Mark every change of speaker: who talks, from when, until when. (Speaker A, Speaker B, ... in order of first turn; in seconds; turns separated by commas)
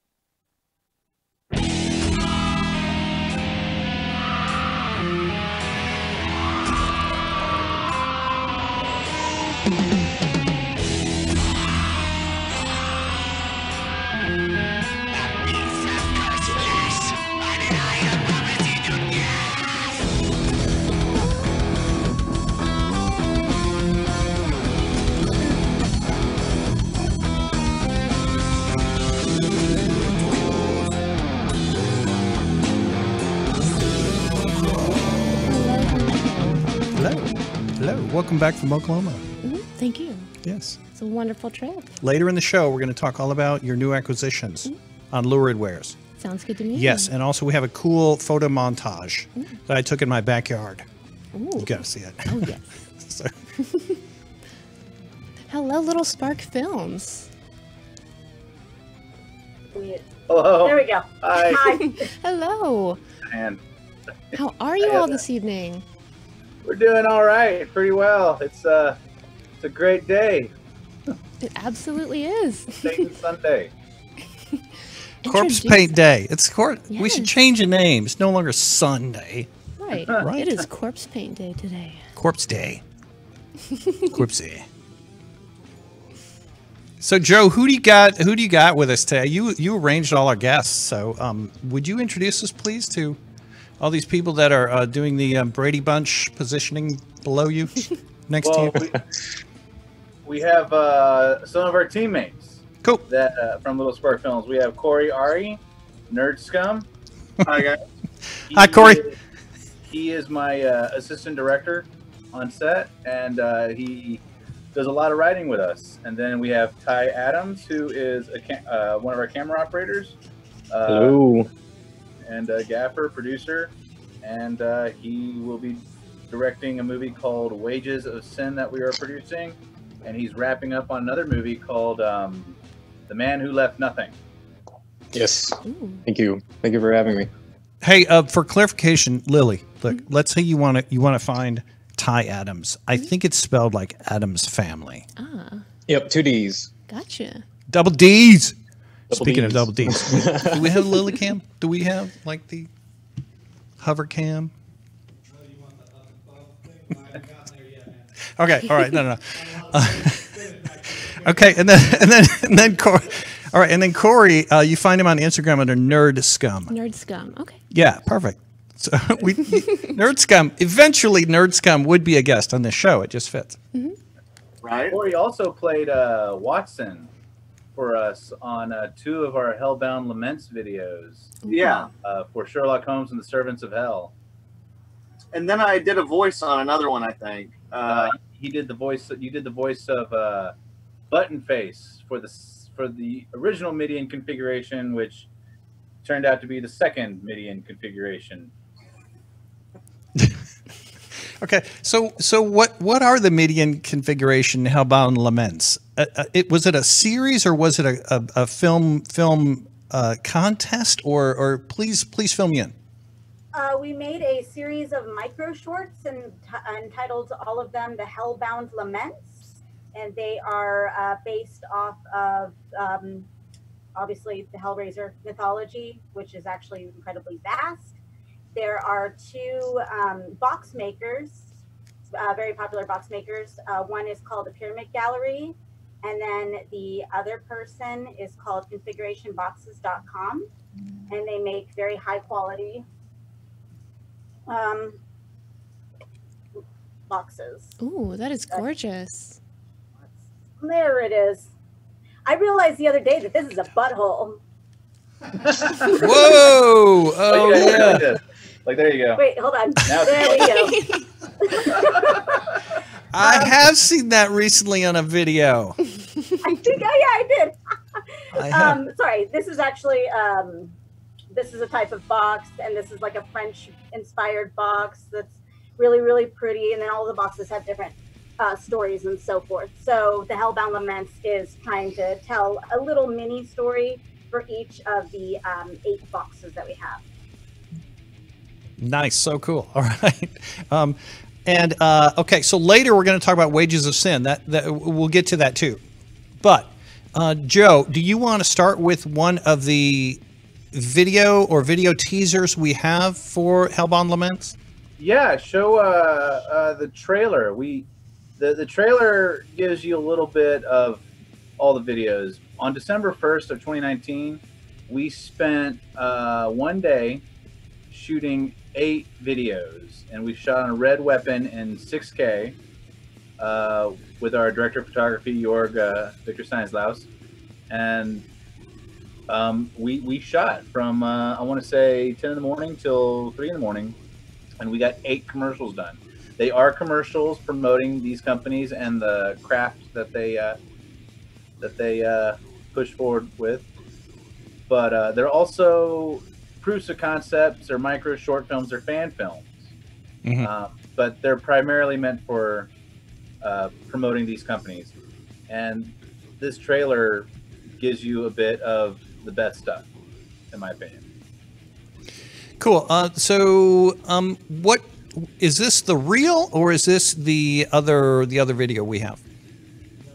Speaker A: 35.3-36.8, Speaker B: 37.0-39.2, Speaker A: 39.4-40.3, Speaker B: 40.4-40.8, Speaker A: 40.9-42.0, Speaker B: 42.0-46.0, Speaker A: 46.2-47.1, Speaker B: 46.7-50.9, Speaker A: 51.3-52.9, Speaker B: 51.6-53.3, Speaker A: 53.6-54.0, Speaker A: 55.5-57.3, Speaker C: 59.7-60.0, Speaker D: 60.3-61.8, Speaker C: 60.6-62.1, Speaker A: 62.0-63.0, Speaker D: 63.3-63.6, Speaker A: 64.3-65.8, Speaker D: 64.8-65.2, Speaker D: 66.6-69.0, Speaker D: 69.6-70.5, Speaker A: 71.4-73.1, Speaker D: 72.8-73.7, Speaker A: 75.2-76.0, Speaker B: 75.2-79.5, Speaker A: 76.9-77.3, Speaker A: 79.8-82.0, Speaker B: 80.1-80.7, Speaker B: 82.2-82.8, Speaker A: 83.7-84.2, Speaker B: 84.1-84.7, Speaker B: 87.0-93.2, Speaker B: 93.8-98.8, Speaker D: 98.4-99.0, Speaker D: 100.2-106.9, Speaker E: 107.5-107.8, Speaker B: 108.5-109.0, Speaker D: 108.5-109.2, Speaker D: 109.9-114.2, Speaker D: 114.7-120.2, Speaker D: 120.7-121.2, Speaker F: 120.9-121.5, Speaker D: 122.2-132.6, Speaker D: 133.1-134.2, Speaker F: 135.1-137.3, Speaker A: 135.6-136.0, Speaker B: 137.8-145.1, Speaker A: 145.2-145.7, Speaker F: 145.9-146.7, Speaker A: 146.9-147.4, Speaker B: 147.7-148.6, Speaker F: 149.1-150.7, Speaker B: 149.1-152.7, Speaker B: 153.8-154.5, Speaker B: 158.3-166.7, Speaker A: 166.7-167.6, Speaker B: 167.7-173.6, Speaker A: 169.5-169.9, Speaker E: 174.6-175.0, Speaker D: 174.9-177.1, Speaker D: 177.8-181.4, Speaker A: 181.4-181.9, Speaker E: 181.5-181.9, Speaker D: 182.0-184.1, Speaker E: 185.3-188.2, Speaker D: 187.9-190.5, Speaker D: 191.1-195.3, Speaker D: 196.0-198.5, Speaker B: 201.2-212.7, Speaker C: 213.5-223.3, Speaker C: 224.0-228.0, Speaker C: 228.6-231.5, Speaker C: 232.1-240.5, Speaker C: 241.1-242.9, Speaker C: 244.5-245.0, Speaker C: 247.1-247.8, Speaker A: 247.8-249.4, Speaker C: 250.6-251.5, Speaker C: 252.3-254.4, Speaker B: 255.9-258.1, Speaker D: 257.3-259.2, Speaker C: 259.2-260.9, Speaker D: 259.8-260.6, Speaker A: 260.6-261.0, Speaker C: 261.4-262.4, Speaker B: 263.1-265.8, Speaker C: 263.2-263.5, Speaker C: 266.4-270.8, Speaker B: 268.3-268.8, Speaker C: 271.3-287.0, Speaker B: 288.8-295.8, Speaker B: 296.4-304.6, Speaker D: 305.0-307.9, Speaker D: 308.4-311.0, Speaker D: 311.6-317.2, Speaker D: 317.9-322.6, Speaker D: 323.4-327.1, Speaker D: 327.7-328.2, Speaker D: 329.3-334.0, Speaker D: 334.6-340.6, Speaker D: 341.6-343.7, Speaker D: 344.7-349.7, Speaker B: 350.2-350.5, Speaker D: 350.4-352.7, Speaker D: 353.4-354.9, Speaker D: 355.5-359.9, Speaker D: 360.5-361.0, Speaker B: 362.6-369.2